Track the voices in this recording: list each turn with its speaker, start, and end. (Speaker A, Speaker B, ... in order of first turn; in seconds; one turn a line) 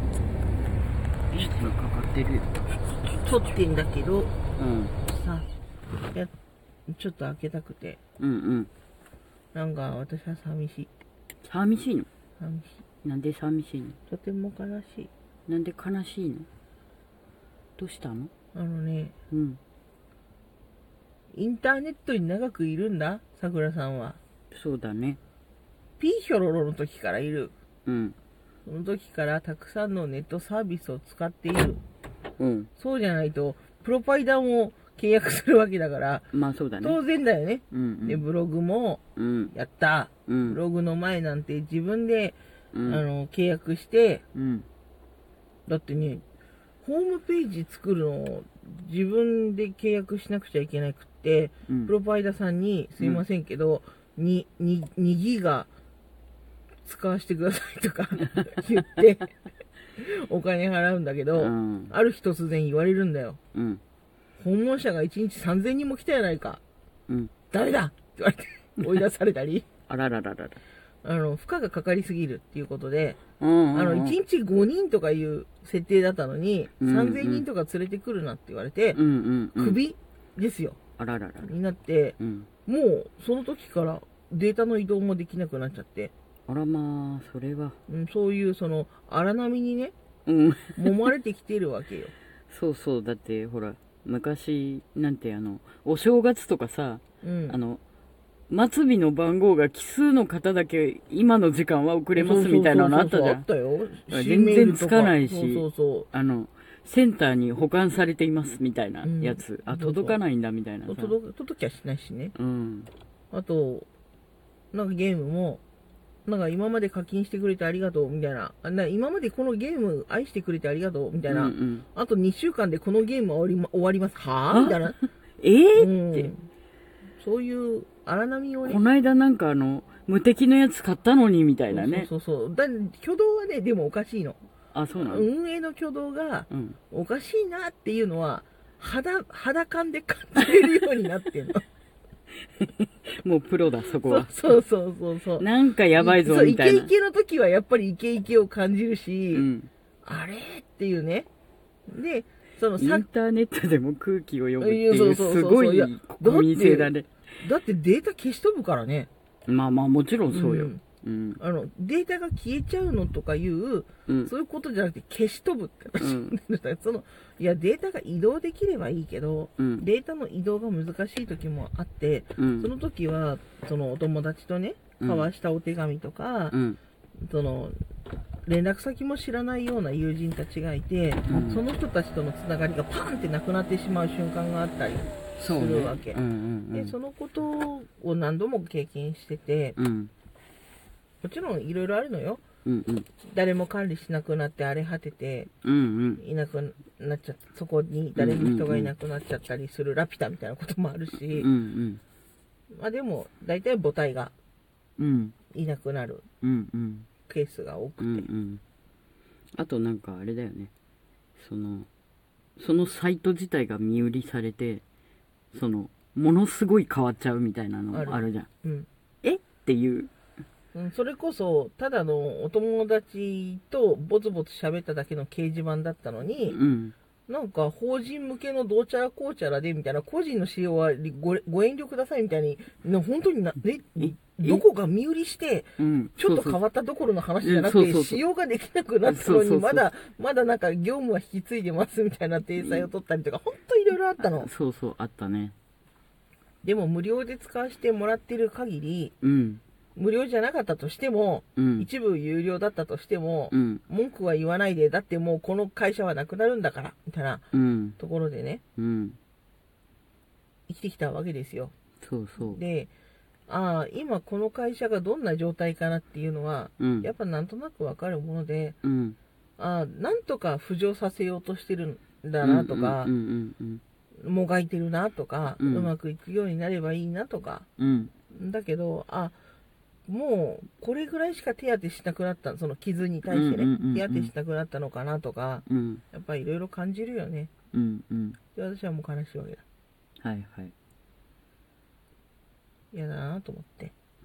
Speaker A: 1.3-2.5
Speaker B: 3.1-4.3
Speaker A: 4.6-4.9
Speaker B: 5.0-5.5
Speaker B: 6.9-8.0
Speaker A: 8.2-8.7
Speaker B: 9.5-10.9
Speaker A: 11.4-12.1
Speaker B: 12.4-12.8
Speaker A: 13.0-14.0
Speaker B: 14.1-15.1
Speaker A: 15.5-16.5
Speaker A: 17.8-18.3
Speaker B: 18.5-19.1
Speaker A: 19.3-19.6
Speaker B: 21.3-24.2
Speaker A: 24.5-25.2
Speaker B: 26.0-27.5
Speaker A: 27.9-28.1
Speaker B: 28.6-31.8
Speaker A: 32.4-32.7
Speaker B: 32.8-39.0
Speaker A: 36.3-37.0
Speaker A: 37.7-38.2
Speaker A: 39.2-39.5
Speaker B: 39.5-44.2
Speaker A: 40.3-40.6
Speaker A: 42.7-43.0
Speaker A: 44.3-44.6
Speaker B: 45.7-46.2
Speaker B: 46.8-55.7
Speaker A: 51.7-51.9
Speaker B: 56.8-59.3
Speaker B: 60.0-63.4
Speaker A: 61.3-61.9
Speaker A: 63.5-63.8
Speaker B: 64.4-66.6
Speaker B: 67.5-69.7
Speaker A: 69.9-70.6
Speaker B: 71.0-79.0
Speaker A: 73.4-74.2
Speaker A: 76.8-77.5
Speaker A: 78.9-79.8
Speaker B: 79.5-80.8
Speaker A: 81.0-81.5
Speaker B: 81.4-86.1
Speaker A: 82.2-82.5
Speaker A: 86.5-87.8
Speaker B: 87.9-89.9
Speaker A: 90.2-91.1
Speaker B: 90.8-92.1
Speaker A: 92.5-97.8
Speaker B: 97.2-97.6
Speaker A: 98.5-103.4
Speaker B: 102.1-106.1
Speaker A: 104.1-111.1
Speaker B: 109.0-110.2
Speaker B: 110.9-112.3
Speaker A: 112.3-112.9
Speaker B: 113.3-113.9
Speaker B: 114.7-115.6
Speaker B: 116.2-125.0
Speaker A: 121.3-121.8
Speaker A: 124.5-124.8
Speaker A: 125.4-126.3
Speaker B: 125.8-126.5
Speaker B: 127.2-128.8
Speaker A: 128.6-132.1
Speaker B: 131.7-134.4
Speaker A: 134.7-135.3
Speaker B: 134.9-141.6
Speaker A: 136.5-136.8
Speaker A: 142.6-144.5
Speaker B: 144.0-149.5
Speaker A: 145.4-146.9
Speaker A: 149.3-149.7
Speaker B: 150.0-151.3
Speaker B: 151.9-153.1
Speaker A: 152.8-157.1
Speaker B: 154.6-159.1
Speaker A: 159.5-161.4
Speaker B: 160.3-160.8
Speaker B: 161.4-176.6
Speaker A: 166.0-166.3
Speaker A: 169.6-169.8
Speaker A: 172.4-172.7
Speaker A: 175.0-175.3
Speaker A: 176.5-176.8
Speaker B: 177.2-177.8
Speaker B: 178.4-189.8
Speaker A: 181.2-181.6
Speaker A: 185.4-186.9
Speaker A: 189.8-190.1
Speaker B: 191.2-192.4
Speaker A: 192.6-193.1
Speaker B: 193.2-195.5
Speaker A: 195.6-196.2
Speaker B: 196.2-201.5
Speaker A: 198.2-198.9
Speaker A: 201.3-202.0
Speaker B: 202.7-204.3
Speaker A: 205.0-205.3
Speaker B: 205.5-206.2
Speaker A: 206.4-207.1
Speaker B: 207.3-208.3
Speaker A: 208.0-208.6
Speaker A: 209.5-210.7
Speaker A: 211.4-211.9
Speaker A: 212.6-214.8
Speaker A: 215.5-218.5
Speaker B: 217.9-218.9
Speaker A: 219.2-220.1
Speaker B: 220.7-226.6
Speaker A: 226.5-226.9
Speaker B: 227.3-244.5
Speaker A: 234.0-234.6
Speaker A: 235.8-236.6
Speaker A: 237.4-238.2
Speaker A: 239.0-239.8
Speaker A: 242.6-242.9
Speaker A: 244.2-245.5
Speaker B: 246.6-249.1
Speaker A: 249.2-249.6
Speaker B: 249.9-257.5
Speaker A: 251.6-251.9
Speaker A: 253.5-253.8
Speaker A: 257.5-257.9
Speaker B: 258.0-258.6
Speaker A: 258.8-259.2
Speaker B: 260.7-261.7
Speaker A: 262.0-262.6
Speaker B: 262.4-262.9
Speaker B: 263.5-268.8
Speaker A: 266.8-267.1
Speaker A: 268.8-269.2
Speaker B: 269.6-273.1
Speaker A: 272.4-273.8
Speaker B: 274.2-277.7
Speaker A: 275.6-275.9
Speaker A: 277.8-278.1
Speaker B: 278.3-279.4
Speaker B: 280.1-287.5
Speaker A: 283.3-284.3
Speaker A: 285.7-286.0
Speaker A: 287.7-288.4
Speaker B: 288.5-289.6
Speaker A: 290.2-290.7
Speaker B: 292.9-293.9